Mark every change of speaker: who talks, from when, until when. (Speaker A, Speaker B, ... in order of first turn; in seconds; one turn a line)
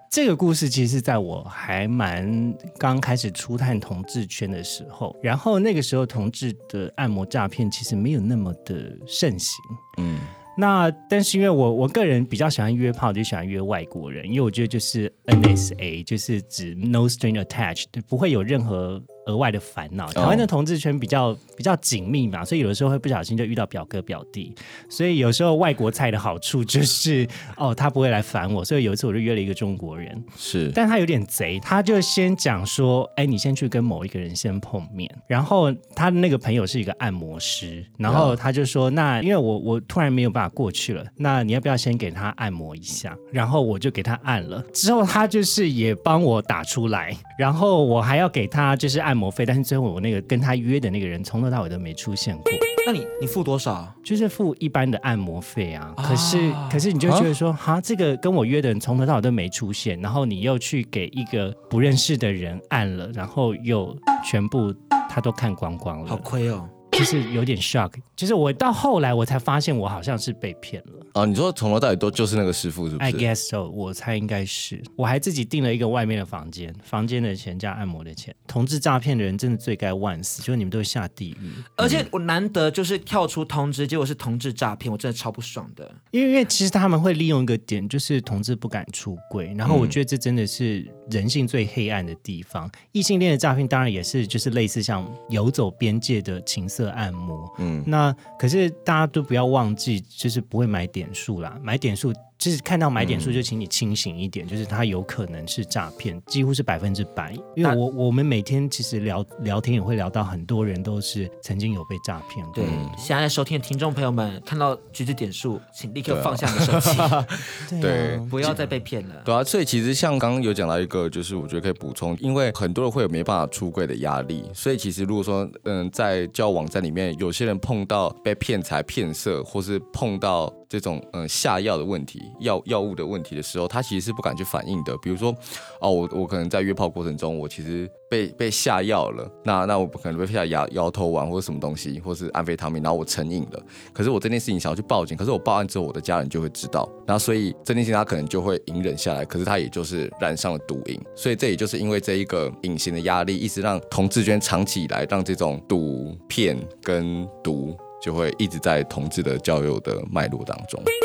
Speaker A: 0.1-9.8
Speaker B: 10.0-10.3
Speaker A: 10.6-52.7
Speaker B: 20.1-20.5
Speaker B: 30.4-30.8
Speaker B: 38.1-38.4
Speaker C: 52.9-54.0
Speaker A: 54.0-66.3
Speaker C: 56.0-57.3
Speaker C: 66.1-66.7
Speaker A: 66.9-71.1
Speaker B: 71.1-73.3
Speaker A: 73.0-81.7
Speaker C: 81.8-86.0
Speaker B: 81.8-82.1
Speaker A: 86.1-112.9
Speaker B: 89.7-90.0
Speaker B: 97.6-97.9
Speaker B: 103.0-103.4
Speaker C: 112.5-117.3
Speaker B: 112.6-113.0
Speaker B: 116.1-118.6
Speaker A: 117.6-118.7
Speaker C: 118.3-119.3
Speaker B: 119.2-160.9